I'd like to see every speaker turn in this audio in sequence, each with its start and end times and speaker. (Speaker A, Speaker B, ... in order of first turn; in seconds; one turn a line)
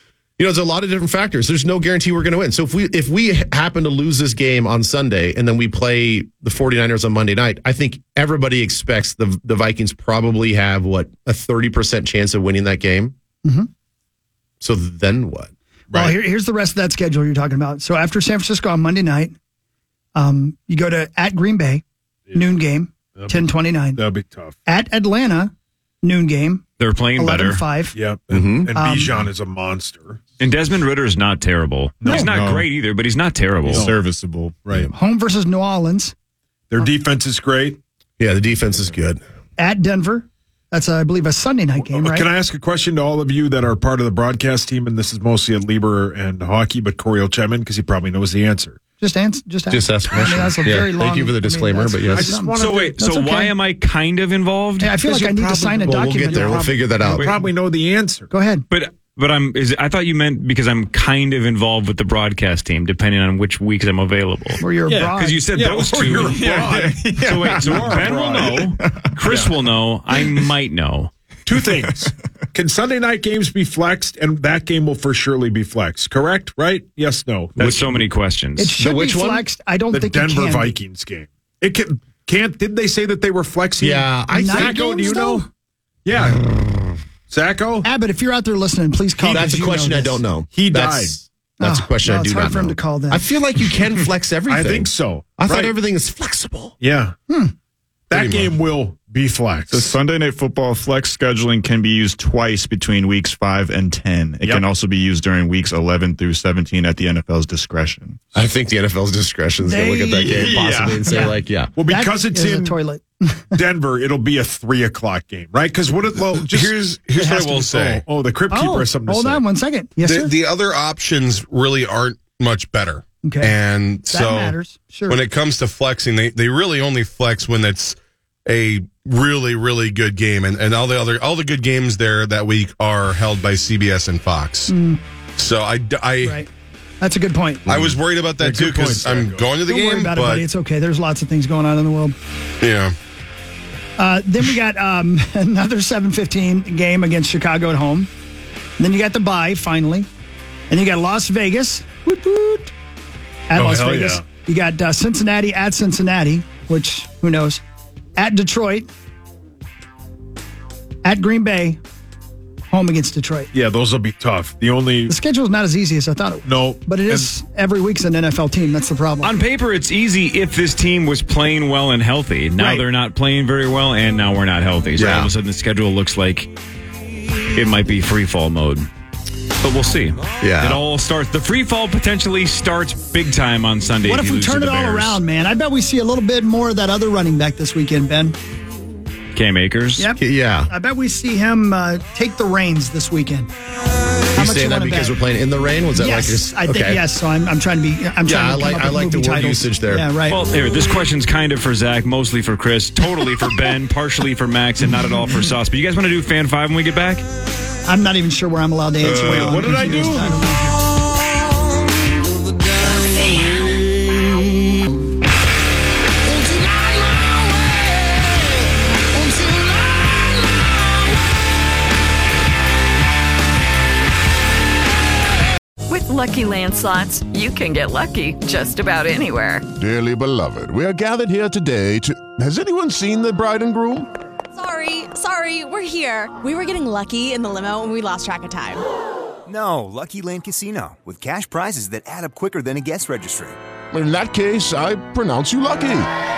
Speaker A: 0.4-13.1
Speaker B: 13.4-13.7
Speaker A: 14.6-15.5
Speaker C: 15.9-16.2
Speaker B: 15.9-19.3
Speaker B: 20.1-21.8
Speaker C: 22.3-22.6
Speaker B: 22.3-24.0
Speaker C: 23.1-24.6
Speaker B: 24.7-26.6
Speaker D: 26.8-27.6
Speaker B: 27.2-27.9
Speaker C: 27.9-30.2
Speaker A: 28.3-28.7
Speaker B: 28.7-29.1
Speaker D: 30.4-33.9
Speaker C: 32.0-32.3
Speaker E: 32.1-32.6
Speaker C: 33.6-34.0
Speaker E: 33.8-34.9
Speaker C: 34.6-34.9
Speaker B: 34.9-36.1
Speaker C: 36.7-37.8
Speaker A: 38.2-39.2
Speaker B: 39.6-42.3
Speaker C: 41.9-48.8
Speaker B: 49.0-53.5
Speaker A: 49.7-52.4
Speaker C: 52.1-53.0
Speaker D: 52.6-54.9
Speaker B: 54.8-56.7
Speaker C: 55.0-58.3
Speaker A: 55.9-57.4
Speaker B: 58.3-58.6
Speaker D: 58.7-71.1
Speaker B: 64.6-65.4
Speaker C: 64.9-68.7
Speaker E: 66.4-68.1
Speaker C: 71.5-78.0
Speaker D: 77.6-78.7
Speaker B: 78.6-80.7
Speaker A: 78.8-79.5
Speaker C: 79.9-85.5
Speaker A: 83.8-85.1
Speaker B: 84.3-85.5
Speaker C: 86.0-86.5
Speaker C: 87.3-87.9
Speaker B: 87.8-90.2
Speaker C: 89.2-89.5
Speaker A: 89.3-96.7
Speaker C: 90.5-91.2
Speaker B: 91.6-93.2
Speaker C: 94.5-95.7
Speaker C: 96.8-97.1
Speaker C: 98.1-100.0
Speaker F: 98.1-98.5
Speaker E: 99.7-108.2
Speaker C: 104.4-104.7
Speaker A: 108.3-111.7
Speaker B: 109.6-113.6
Speaker C: 110.3-111.2
Speaker C: 111.8-112.8
Speaker C: 113.5-119.4
Speaker F: 116.5-118.0
Speaker B: 118.5-120.3
Speaker F: 120.0-124.5
Speaker B: 123.2-123.5
Speaker B: 124.1-125.2
Speaker F: 125.1-134.7
Speaker B: 134.7-135.0
Speaker F: 135.4-136.4
Speaker B: 136.2-136.5
Speaker B: 137.0-137.6
Speaker F: 137.7-140.4
Speaker C: 137.7-139.6
Speaker B: 139.6-142.1
Speaker F: 142.6-142.9
Speaker B: 144.0-148.1
Speaker B: 148.8-150.1
Speaker B: 150.7-152.7
Speaker B: 153.5-157.6
Speaker C: 153.5-154.2
Speaker B: 158.2-158.9
Speaker B: 161.0-161.8
Speaker B: 162.7-163.5
Speaker C: 163.5-165.1
Speaker B: 165.1-169.3
Speaker C: 166.4-167.3
Speaker D: 169.2-176.5
Speaker C: 172.6-172.8
Speaker A: 175.0-175.3
Speaker D: 177.5-178.9
Speaker D: 179.6-185.2
Speaker A: 180.4-180.8
Speaker B: 184.1-188.4
Speaker D: 189.3-190.1
Speaker B: 190.0-193.5
Speaker A: 190.2-190.7
Speaker A: 194.3-197.0
Speaker B: 194.3-195.1
Speaker B: 195.9-200.4
Speaker A: 198.2-200.1
Speaker D: 200.3-207.2
Speaker B: 207.8-210.8
Speaker C: 209.0-210.4
Speaker F: 209.3-209.7
Speaker G: 225.9-229.7
Speaker H: 229.8-234.1
Speaker I: 234.5-238.8
Speaker J: 239.4-243.6
Speaker H: 243.9-246.1